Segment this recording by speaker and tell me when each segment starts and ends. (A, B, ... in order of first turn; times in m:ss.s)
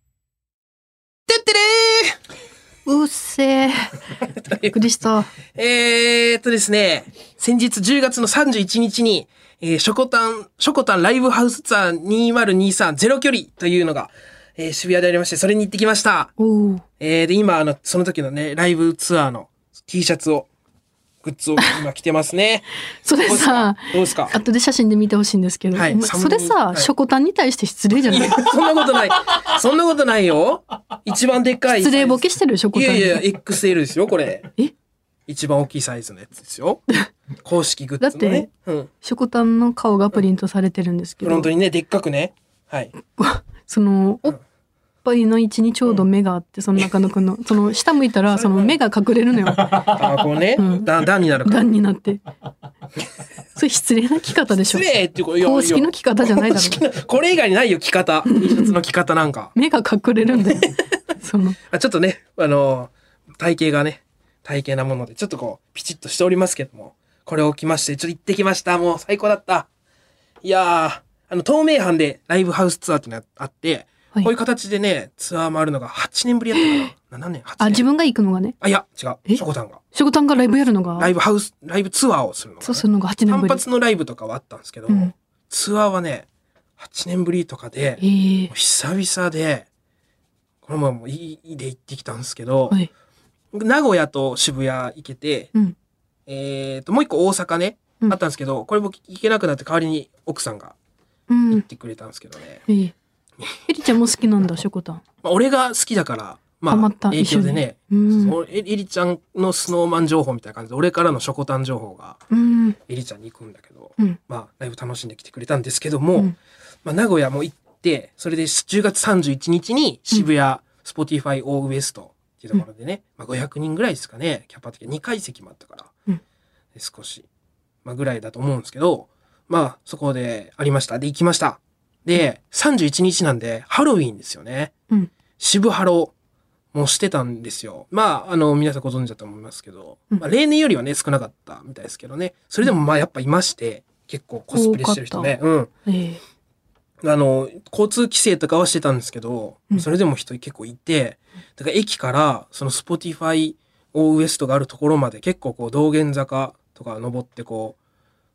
0:01.3-0:02.2 A
0:02.9-0:03.9 B
0:04.3-0:04.8 A
0:04.6-0:05.3 B
0:05.5-0:16.3 A
0:16.4-0:16.8 B
0:17.0-0:20.5 A
0:21.2-0:22.7 A
0:23.0-0:28.4 B
0:23.2-0:24.4 A
0:25.7-0:26.9 A
0:28.0-0:34.5 A
0:31.7-0:33.3 B
0:35.3-0:36.8 A
0:37.4-0:38.9 A
0:38.0-0:38.5 B
0:39.0-0:41.5 B
0:41.2-0:42.9 A
0:43.1-0:44.4 B
0:45.0-0:50.0 B
0:48.4-0:48.7 A
0:49.7-0:51.6 A
0:50.6-0:50.9 B
0:51.4-0:52.2 B
0:53.6-0:54.9 B
0:54.6-0:59.5 A
0:55.4-0:56.8 B
0:58.3-0:58.7 B
0:59.6-1:01.6 B
1:01.7-1:09.7 A
1:10.4-1:17.8 A
1:16.6-1:16.9 B
1:17.6-1:18.6 B
1:18.6-1:19.8 A
1:19.3-1:21.1 B
1:21.0-1:26.3 A
1:22.6-1:23.6 B
1:26.8-1:29.7 A
1:28.0-1:28.5 B
1:30.6-1:32.8 A
1:33.5-1:35.5 A
1:36.3-1:40.8 A
1:41.3-1:41.7 B
1:41.5-1:42.6 A
1:42.7-1:42.9 B
1:43.7-1:45.0 B
1:45.2-1:52.2 A
1:46.7-1:48.4 B
1:52.3-1:52.8 B
1:52.9-2:05.9 A
2:06.8-2:07.3 A
2:07.8-2:14.7 A
2:15.4-2:16.1 A
2:16.7-2:25.7 A
2:24.5-2:26.2 B
2:27.0-2:37.8 A